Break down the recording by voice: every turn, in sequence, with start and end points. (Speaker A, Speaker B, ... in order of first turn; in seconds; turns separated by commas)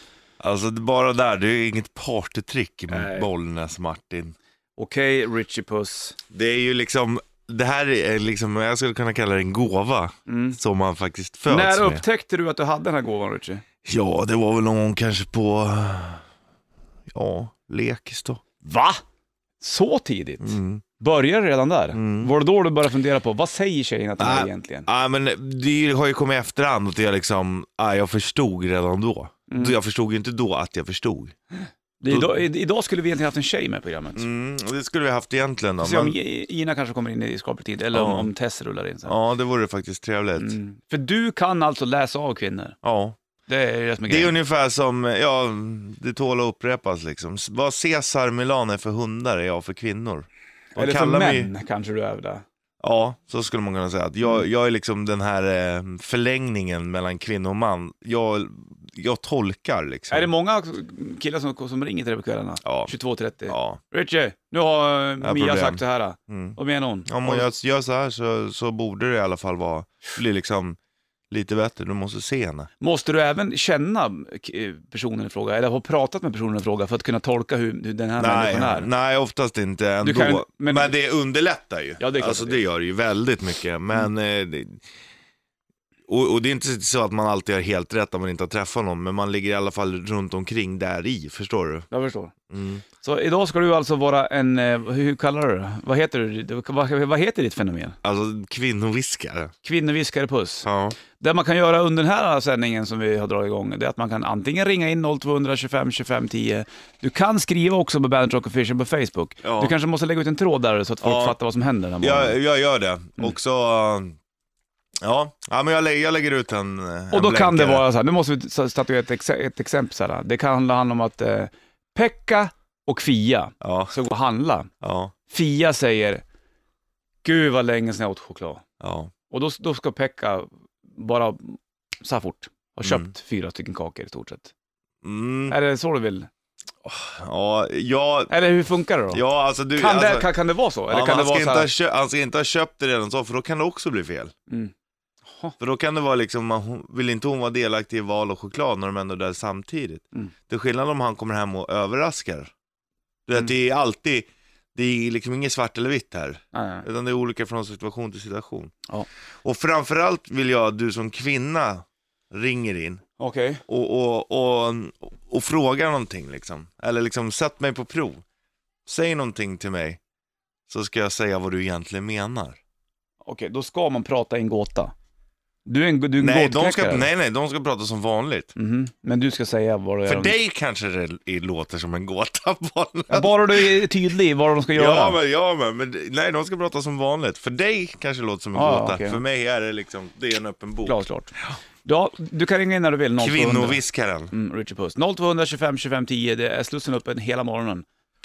Speaker A: 0.4-4.3, Speaker B: 2.9-3.3, Speaker B: 4.8-6.2, Speaker A: 6.3-12.0, Speaker B: 10.3-10.6, Speaker B: 11.5-13.6, Speaker A: 13.8-16.2, Speaker A: 17.1-18.4, Speaker B: 18.6-19.0, Speaker B: 19.6-24.9, Speaker A: 20.4-20.8, Speaker A: 21.9-22.3, Speaker A: 24.2-31.3, Speaker B: 29.5-29.8, Speaker B: 32.0-34.2, Speaker A: 32.1-32.4, Speaker A: 34.1-36.1, Speaker B: 35.8-39.1, Speaker A: 37.9-38.3, Speaker A: 39.0-40.6, Speaker B: 40.4-42.8, Speaker A: 42.8-43.2, Speaker B: 43.5-44.3, Speaker A: 44.1-51.5, Speaker B: 50.7-52.4, Speaker A: 52.8-60.3, Speaker B: 60.1-67.5, Speaker A: 62.6-62.9, Speaker A: 63.5-63.8, Speaker A: 65.2-70.8, Speaker A: 71.3-72.7, Speaker B: 72.8-78.9, Speaker A: 78.2-84.8, Speaker B: 80.0-80.9, Speaker B: 82.0-82.6, Speaker A: 86.1-91.9, Speaker B: 91.9-92.3, Speaker A: 92.5-92.8, Speaker B: 93.0-98.0, Speaker A: 98.0-99.5, Speaker B: 99.6-100.7, Speaker A: 100.6-101.0, Speaker B: 101.2-112.4, Speaker A: 109.4-109.7, Speaker A: 111.0-111.4, Speaker A: 112.0-114.2, Speaker A: 115.0-117.8, Speaker B: 117.1-124.7, Speaker A: 123.6-123.9, Speaker A: 124.8-125.1, Speaker B: 125.3-126.2, Speaker B: 127.2-128.6, Speaker A: 128.8-129.1, Speaker B: 129.3-134.5, Speaker A: 132.8-133.1, Speaker A: 135.0-135.6, Speaker B: 135.5-136.3, Speaker A: 136.8-138.3, Speaker B: 138.3-139.2, Speaker A: 139.1-140.3, Speaker B: 139.8-141.7, Speaker A: 140.9-144.3, Speaker A: 145.6-152.5, Speaker A: 153.3-158.7, Speaker B: 156.5-156.8, Speaker A: 159.4-163.0, Speaker B: 163.2-163.6, Speaker A: 163.7-168.2, Speaker A: 168.8-170.0, Speaker A: 170.7-172.6, Speaker B: 173.2-174.9, Speaker B: 175.7-177.1, Speaker A: 176.2-178.5, Speaker B: 178.6-180.3, Speaker A: 180.1-183.7, Speaker B: 183.1-185.2, Speaker A: 184.7-191.0, Speaker B: 188.5-189.2, Speaker B: 190.8-191.3, Speaker B: 191.8-197.8, Speaker A: 193.2-194.3